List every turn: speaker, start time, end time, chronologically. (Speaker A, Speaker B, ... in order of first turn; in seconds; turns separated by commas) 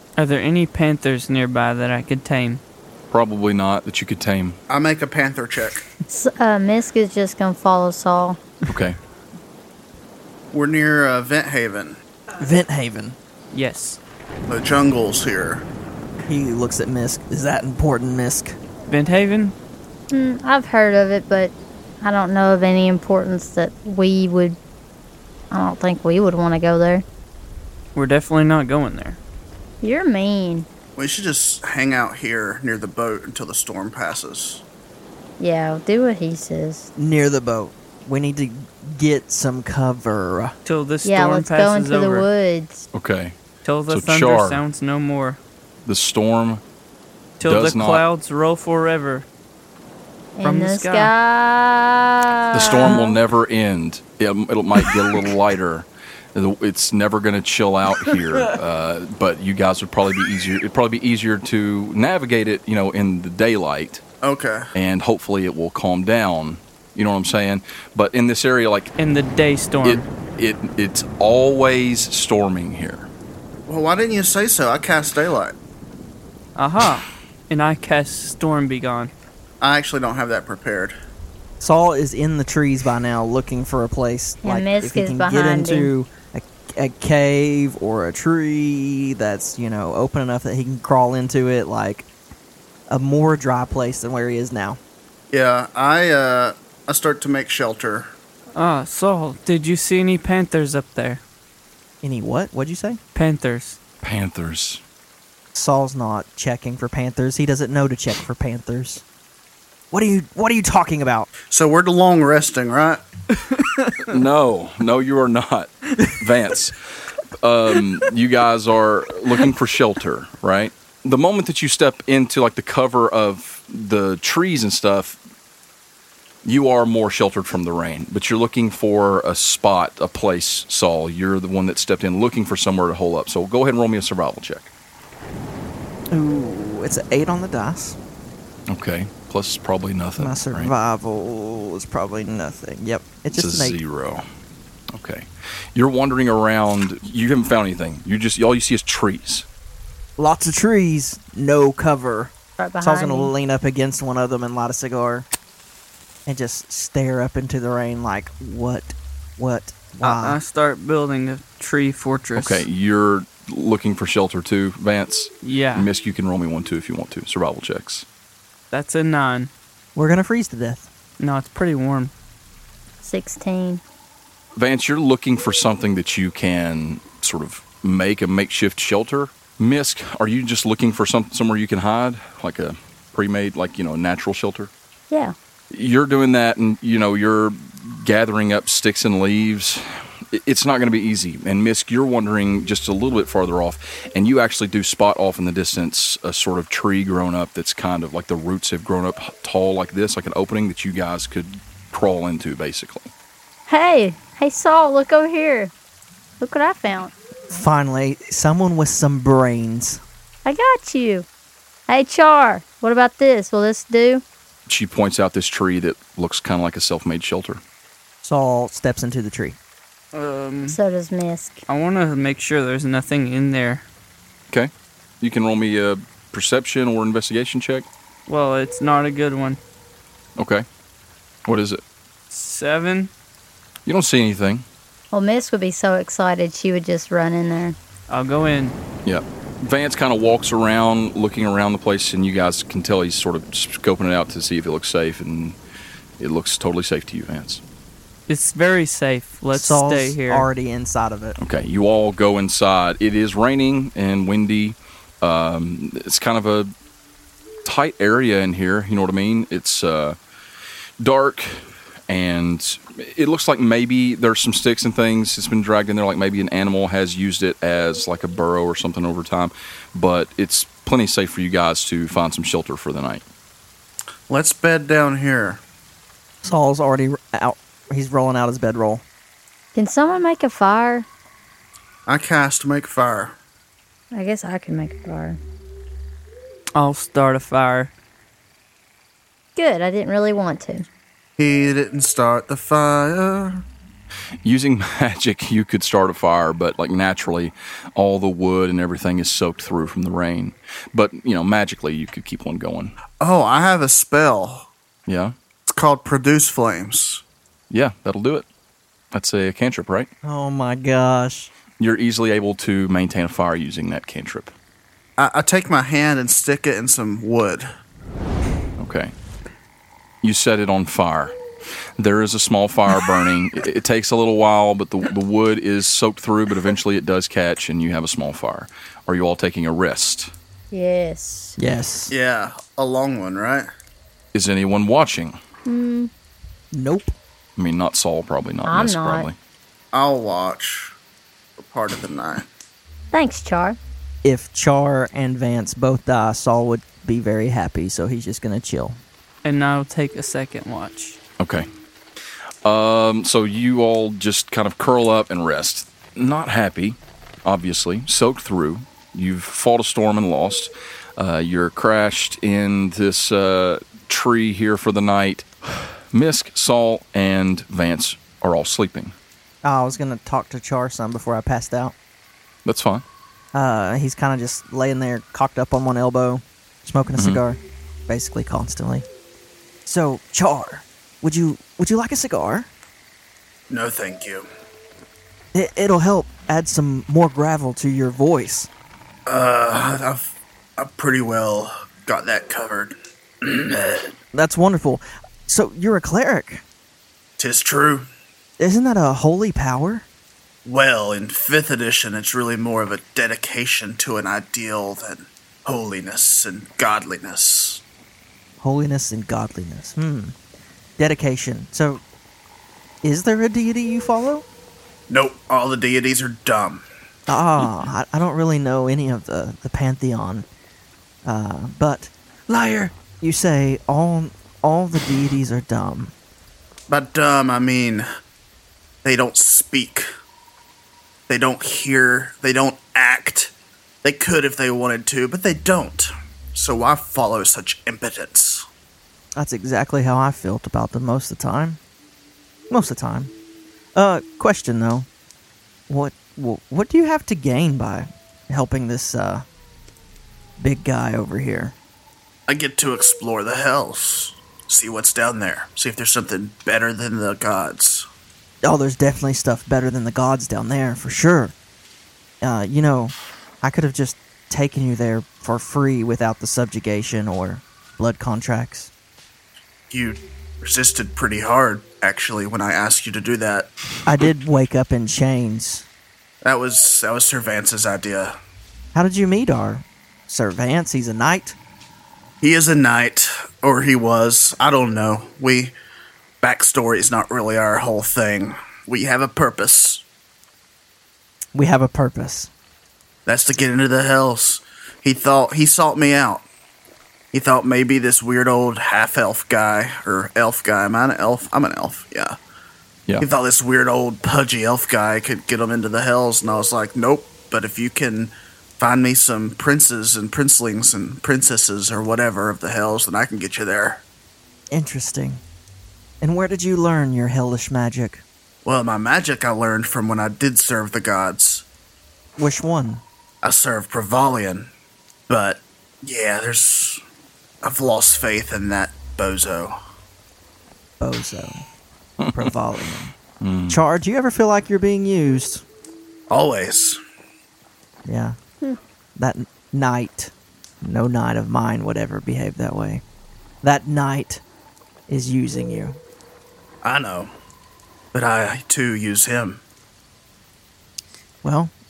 Speaker A: 0.2-2.6, Speaker B: 3.1-4.6, Speaker C: 4.7-5.8, Speaker D: 6.1-8.4, Speaker B: 8.7-9.0, Speaker C: 10.5-12.0, Speaker E: 12.4-13.2, Speaker A: 13.5-14.0, Speaker C: 14.5-15.6, Speaker E: 16.2-18.6, Speaker A: 18.9-19.5, Speaker D: 20.1-24.6, Speaker D: 25.5-27.0, Speaker A: 27.9-29.2, Speaker D: 29.8-30.7, Speaker C: 30.9-34.6, Speaker D: 35.4-36.9, Speaker E: 37.0-40.5, Speaker A: 40.6-42.3, Speaker D: 41.0-42.9, Speaker B: 42.9-43.4, Speaker A: 43.6-45.4, Speaker B: 43.9-44.6, Speaker B: 45.9-46.6, Speaker A: 47.4-49.2, Speaker B: 47.4-48.0, Speaker D: 50.4-53.1, Speaker A: 50.4-51.1, Speaker B: 52.5-64.0, Speaker C: 64.2-64.7, Speaker B: 64.7-68.9, Speaker A: 69.0-70.1, Speaker B: 69.8-73.1, Speaker C: 73.7-75.5, Speaker A: 76.5-79.1, Speaker C: 79.6-80.9, Speaker E: 81.6-92.1, Speaker D: 84.4-85.9, Speaker E: 92.9-94.8, Speaker C: 95.3-98.1, Speaker A: 98.5-101.2, Speaker E: 102.0-103.0, Speaker A: 103.1-103.8, Speaker B: 104.0-104.8, Speaker E: 105.5-109.0, Speaker E: 109.9-111.3, Speaker C: 111.5-113.0, Speaker B: 114.0-116.8, Speaker B: 117.4-125.2, Speaker B: 126.4-134.7, Speaker E: 136.1-138.0, Speaker B: 138.7-140.7, Speaker E: 140.2-143.8, Speaker B: 143.3-144.2, Speaker B: 144.9-149.4, Speaker E: 150.2-155.3, Speaker D: 152.6-153.3, Speaker E: 156.2-160.4, Speaker A: 160.0-162.7, Speaker B: 162.3-168.1, Speaker A: 165.4-165.9, Speaker A: 168.7-169.5, Speaker E: 169.9-170.9, Speaker A: 171.2-172.1, Speaker D: 173.0-173.8, Speaker B: 174.6-184.7, Speaker D: 185.1-185.3, Speaker B: 185.7-203.1, Speaker D: 203.7-205.7, Speaker D: 206.4-207.1, Speaker E: 207.5-210.0, Speaker D: 210.4-211.3, Speaker D: 211.9-214.2, Speaker B: 214.7-217.6, Speaker E: 218.2-219.6, Speaker A: 220.1-220.8, Speaker D: 220.7-221.6, Speaker A: 221.7-223.8, Speaker B: 225.2-227.9, Speaker A: 228.3-229.6, Speaker B: 230.4-230.6, Speaker B: 231.4-231.8, Speaker A: 232.3-233.1, Speaker B: 233.8-234.6, Speaker D: 235.1-237.8, Speaker A: 238.1-238.8, Speaker B: 239.0-245.6, Speaker B: 246.2-247.6, Speaker A: 248.3-250.5, Speaker E: 249.5-251.4, Speaker B: 251.4-256.7, Speaker B: 257.6-260.2, Speaker B: 261.0-273.2, Speaker C: 274.3-275.6, Speaker E: 276.4-279.0, Speaker D: 279.7-281.1, Speaker C: 282.1-283.4, Speaker D: 284.1-285.4, Speaker A: 286.7-287.9, Speaker D: 289.6-290.9, Speaker C: 291.4-293.6, Speaker B: 294.4-302.9, Speaker C: 303.2-304.7, Speaker B: 305.1-305.3, Speaker C: 305.7-307.2, Speaker B: 307.7-308.4, Speaker B: 309.1-310.1, Speaker E: 310.2-311.5, Speaker B: 311.8-314.5, Speaker C: 315.2-317.7, Speaker B: 318.8-319.1, Speaker B: 320.2-321.4, Speaker B: 322.0-330.3, Speaker D: 330.7-331.6, Speaker E: 331.6-332.1, Speaker C: 332.1-333.7, Speaker B: 334.3-335.4, Speaker D: 335.6-336.1, Speaker E: 336.7-337.1, Speaker B: 337.6-339.3, Speaker D: 338.6-339.3, Speaker C: 339.9-340.9, Speaker C: 341.6-342.4, Speaker D: 343.1-343.8, Speaker E: 344.2-349.0, Speaker A: 349.4-351.2, Speaker B: 351.4-351.7, Speaker B: 352.6-369.1, Speaker E: 369.6-371.9, Speaker B: 372.6-373.0, Speaker E: 373.5-379.1, Speaker B: 377.1-377.4, Speaker E: 379.8-382.7, Speaker C: 383.7-384.4, Speaker E: 385.5-388.7, Speaker C: 389.3-394.1, Speaker E: 394.3-396.6, Speaker C: 397.4-398.1, Speaker E: 398.6-400.1, Speaker C: 400.6-407.8, Speaker E: 408.6-410.3, Speaker E: 411.0-412.0, Speaker E: 413.0-414.4, Speaker C: 415.1-416.8, Speaker E: 417.3-420.4, Speaker E: 421.2-426.1, Speaker C: 426.9-428.1, Speaker C: 429.0-430.1, Speaker C: 431.3-438.6, Speaker E: 439.4-441.8, Speaker E: 442.7-443.3, Speaker E: 443.9-445.1, Speaker E: 445.9-449.4, Speaker E: 450.6-451.7, Speaker C: 452.5-458.1, Speaker E: 458.6-461.5, Speaker E: 462.4-468.9, Speaker C: 469.9-473.7, Speaker E: 474.1-475.9, Speaker C: 476.4-478.3, Speaker E: 478.9-481.6, Speaker C: 482.4-485.7, Speaker C: 486.4-490.0, Speaker E: 491.5-492.5, Speaker C: 493.2-496.4, Speaker C: 497.3-502.4, Speaker C: 503.2-514.0, Speaker E: 514.7-515.4, Speaker E: 516.2-518.2, Speaker C: 518.6-521.6, Speaker E: 522.4-523.0, Speaker C: 523.4-524.7, Speaker C: 525.3-527.0, Speaker C: 527.6-529.7, Speaker E: 531.0-531.6, Speaker B: 532.2-532.5, Speaker E: 532.3-533.1, Speaker B: 533.4-533.8, Speaker E: 533.7-535.6, Speaker C: 536.3-537.0, Speaker E: 538.0-538.4, Speaker E: 539.1-543.0, Speaker E: 543.6-544.4, Speaker E: 545.1-546.0, Speaker C: 546.8-547.3, Speaker C: 548.1-549.6, Speaker E: 551.4-551.7